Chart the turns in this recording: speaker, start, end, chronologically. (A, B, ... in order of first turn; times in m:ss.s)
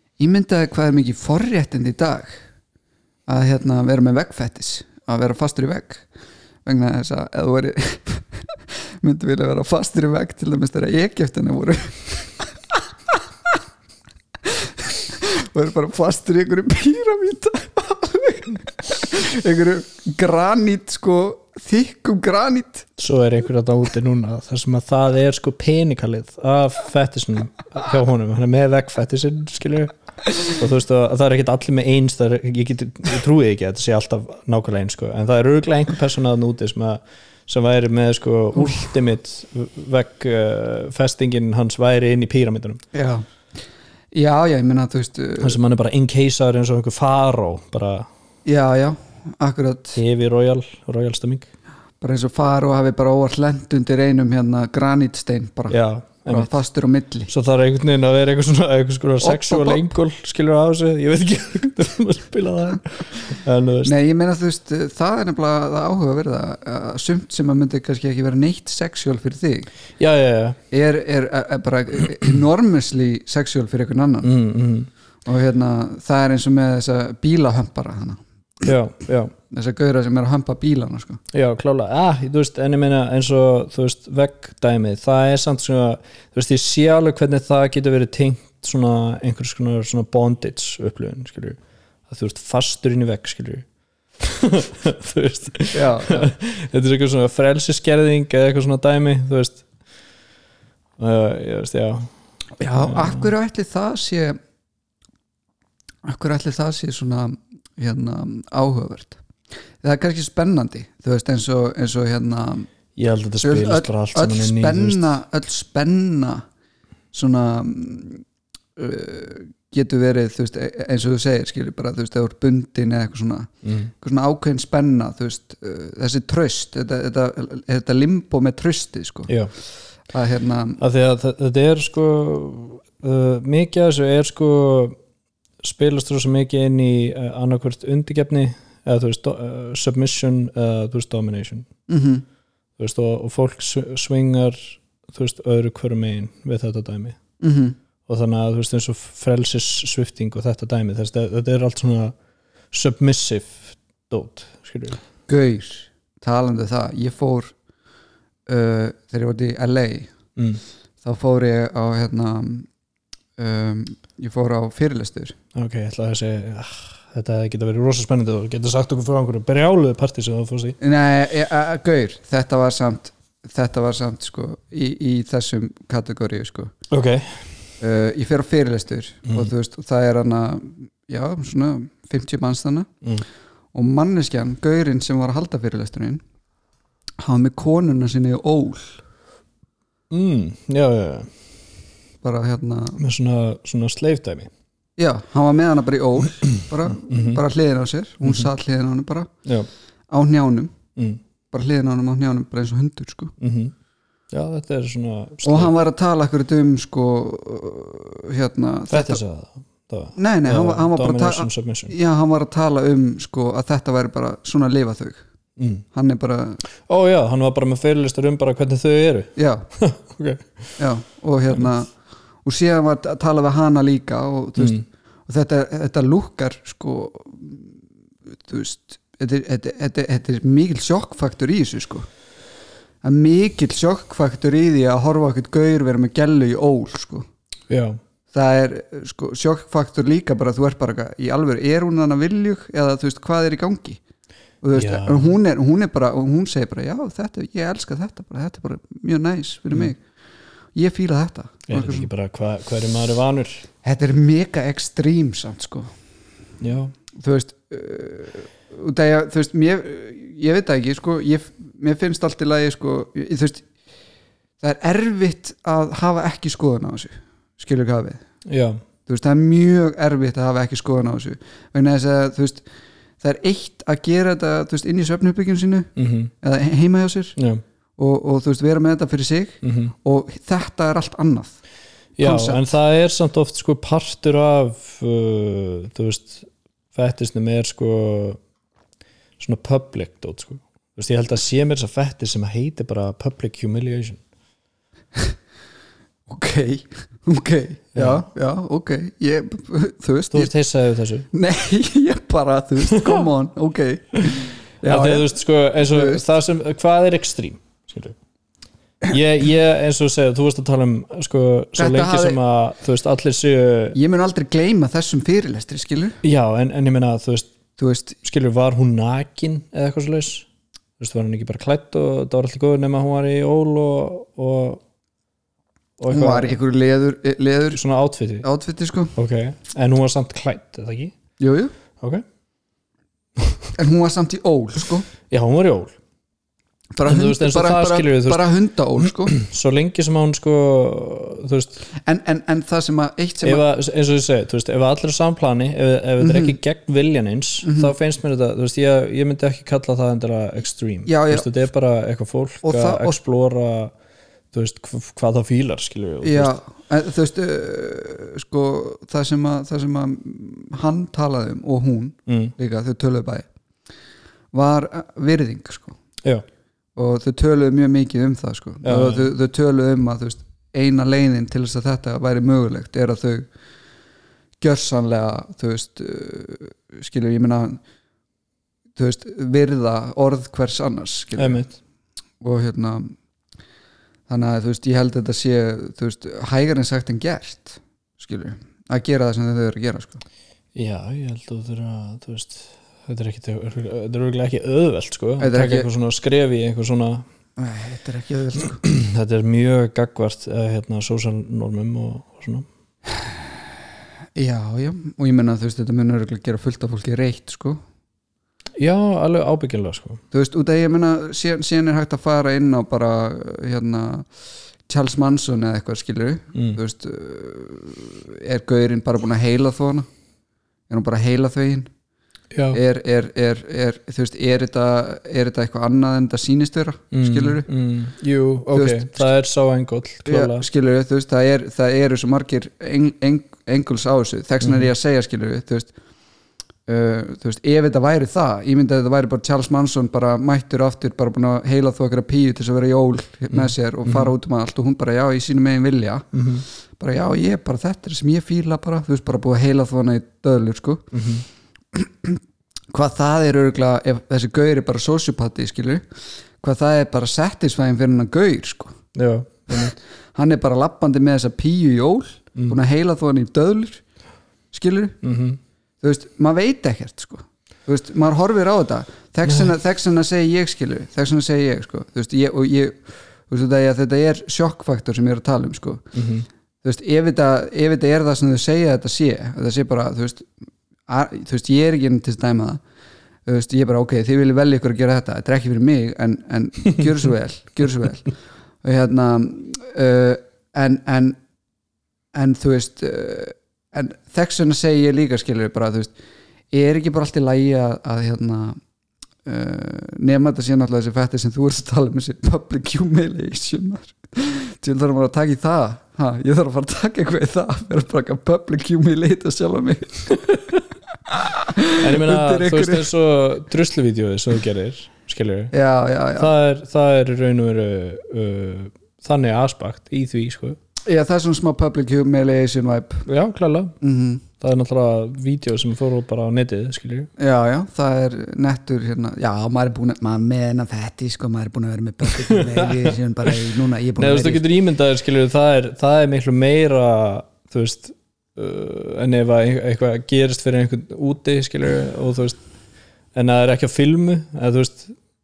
0:00.2-0:02.4 A
0:03.3-0:06.1 A
0:06.6-0:08.5 A
0:09.0-0:12.3 A
0:14.9-0:22.9 A
0:23.0-0:29.9 B
0:30.5-0:42.8 B
0:42.9-0:43.2 A
0:44.1-0:45.6 A
0:45.4-0:48.1 B
0:48.5-0:50.0 A
0:50.0-0:51.5 B
0:52.0-0:57.3 A
0:55.7-0:56.5 B
0:57.3-1:03.9 B
0:59.2-0:59.9 A
1:03.8-1:09.7 A
1:10.0-1:10.6 B
1:10.7-1:14.3 A
1:14.2-1:14.9 B
1:15.3-1:18.2 A
1:18.6-1:19.3 B
1:19.5-1:21.2 A
1:21.3-1:33.7 B
1:34.2-1:39.6 B
1:35.7-1:36.3 A
1:41.0-1:42.1 B
1:42.6-1:44.4 A
1:42.8-1:43.3 B
1:46.0-1:49.2 A
1:49.8-1:52.7 A
1:53.0-1:55.2 B
1:53.4-1:56.4 A
1:57.1-1:58.2 A
1:58.8-2:03.5 A
2:03.6-2:03.9 B
2:04.0-2:09.3 A
2:10.1-2:10.8 A
2:10.8-2:15.0 B
2:15.6-2:21.7 B
2:21.9-2:22.2 A
2:22.8-2:27.2 B
2:27.4-2:27.8 A
2:28.1-2:32.2 B
2:32.7-2:35.0 B
2:35.3-2:37.5 A
2:38.5-2:40.1 A
2:40.4-2:40.6 B
2:41.0-2:42.7 A
2:43.4-2:45.4 A
2:45.5-2:50.8 B
2:50.8-2:56.7 A
2:56.9-2:57.3 B
2:57.8-3:02.9 A
3:03.7-3:06.2 A
3:07.2-3:09.0 A
3:10.1-3:11.3 B
3:12.2-3:13.0 A
3:13.0-3:14.5 B
3:15.0-3:19.3 A
3:16.9-3:17.4 B
3:20.1-3:20.8 A
3:21.5-3:23.4 A
3:23.4-3:23.7 B
3:24.3-3:25.7 B
3:25.4-3:29.2 A
3:28.9-3:32.0 B
3:30.2-3:35.2 A
3:35.6-3:35.8 B
3:35.9-3:36.6 A
3:36.9-3:40.7 B
3:39.4-3:39.7 A
3:40.8-3:41.9 A
3:42.4-3:47.8 A
3:44.6-3:44.8 B
3:48.3-3:52.1 A
3:53.0-3:57.3 A
3:57.7-3:58.0 B
3:58.3-4:04.0 A
4:04.6-4:10.0 A
4:04.7-4:05.4 B
4:10.8-4:12.1 A
4:11.7-4:13.7 B
4:13.8-4:15.9 A
4:16.6-4:16.9 B
4:17.2-4:23.6 A
4:24.6-4:28.2 A
4:28.5-4:28.8 B
4:29.1-4:32.6 A
4:33.2-4:37.4 A
4:36.0-4:36.3 B
4:37.4-4:37.6 B
4:38.0-4:41.6 A
4:39.6-4:40.0 B
4:42.2-4:48.4 B
4:42.2-4:42.6 A
4:49.4-4:54.2 B
4:56.3-5:00.5 A
4:58.0-4:58.2 B
5:00.3-5:01.3 B
5:01.3-5:05.3 A
5:03.0-5:03.3 B
5:04.8-5:08.2 B
5:05.8-5:06.2 A
5:09.1-5:14.0 B
5:11.8-5:12.4 A
5:13.9-5:16.2 A
5:16.2-5:17.5 B
5:17.8-5:18.2 A
5:18.2-5:20.5 B
5:21.0-5:24.8 B
5:26.0-5:26.6 B
5:26.1-5:27.8 A
5:27.7-5:28.5 B
5:28.4-5:29.1 A
5:29.2-5:31.1 B
5:31.4-5:31.7 A
5:33.4-5:33.6 B
5:33.8-5:35.1 A
5:35.3-5:36.0 B
5:37.0-5:39.4 A
5:37.0-5:38.4 B
5:39.0-5:41.9 B
5:42.0-5:43.6 A
5:43.4-5:53.9 B
5:46.2-5:46.6 A
5:47.6-5:47.9 A
5:51.1-5:51.5 A
5:52.6-5:53.2 A
5:54.5-5:56.6 B
5:56.2-6:03.5 A
6:02.3-6:02.5 B
6:04.5-6:06.0 A
6:07.0-6:13.5 A
6:08.8-6:09.3 B
6:14.6-6:17.8 A
6:19.0-6:21.6 A
6:21.4-6:21.8 B
6:22.4-6:23.1 A
6:24.3-6:30.2 A
6:30.8-6:37.2 B
6:35.4-6:35.9 A
6:37.6-6:38.8 A
6:38.8-6:42.7 B
6:44.4-6:47.8 A
6:48.8-6:50.2 B
6:50.3-6:54.3 A
6:54.9-7:00.1 A
7:00.9-7:01.9 A
7:02.5-7:02.8 B
7:02.7-7:07.7 A
7:07.1-7:10.7 B
7:08.7-7:09.3 A
7:10.3-7:15.9 A
7:14.6-7:14.9 B
7:16.9-7:26.3 A
7:23.5-7:24.3 B
7:26.3-7:26.6 B
7:27.0-7:31.1 A
7:31.1-7:31.4 B
7:31.9-7:32.4 A
7:32.9-7:36.0 A
7:36.6-7:39.0 A
7:39.2-7:40.0 B
7:39.7-7:44.0 A
7:44.7-7:45.2 A
7:45.2-7:45.6 B
7:46.0-7:56.1 A
7:49.5-7:49.7 B
7:56.1-7:56.5 B
7:56.8-8:00.5 A
8:01.1-8:02.8 A
8:03.5-8:08.3 A
8:08.8-8:11.4 A
8:12.3-8:16.1 A
8:16.7-8:18.8 A
8:19.4-8:30.6 A
8:31.3-8:33.1 A
8:32.0-8:35.7 B
8:35.7-8:36.5 A
8:36.4-8:40.8 B
8:41.1-8:43.3 A
8:43.3-8:44.0 B
8:44.0-8:44.4 A
8:44.6-8:47.3 B
8:47.4-8:54.6 A
8:52.5-8:53.5 B
8:54.2-9:02.6 B
9:03.3-9:05.2 B